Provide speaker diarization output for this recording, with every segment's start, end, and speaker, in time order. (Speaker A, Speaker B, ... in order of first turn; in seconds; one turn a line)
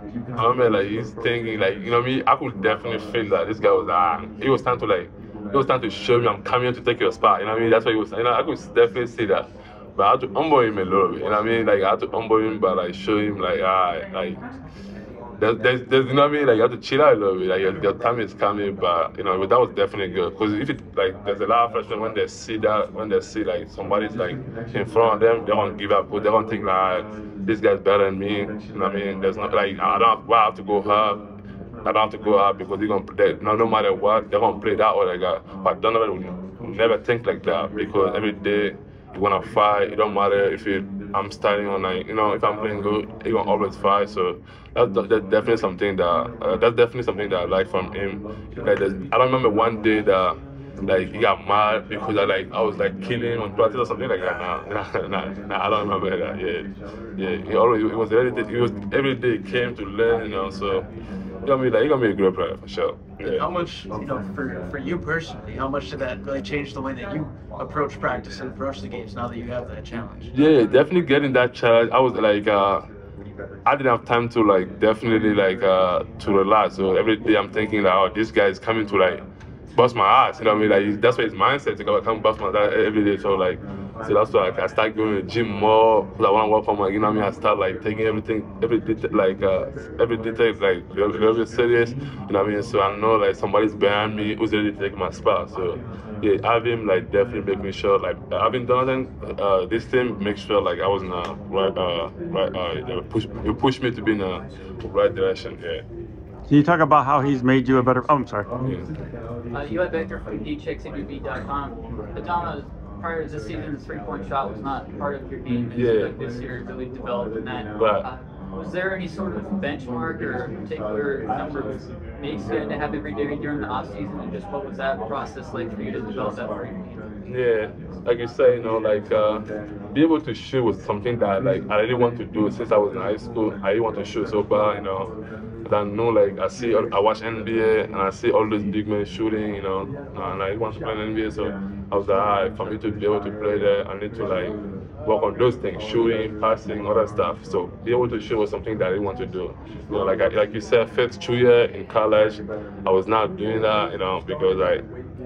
Speaker A: 0.3-14.4
Speaker A: 15.4-31.2
Speaker A: 31.8-60.9
Speaker A: 61.4-63.5
Speaker B: 63.2-70.3
Speaker A: 70.3-72.9
Speaker A: 73.7-79.2
Speaker A: 79.7-105.8
Speaker C: 106.5-108.5
Speaker A: 108.6-108.9
Speaker D: 109.5-127.1
Speaker A: 115.7-116.1
Speaker A: 117.8-118.1
Speaker A: 127.2-135.1
Speaker A: 135.6-144.5
Speaker A: 145.0-154.8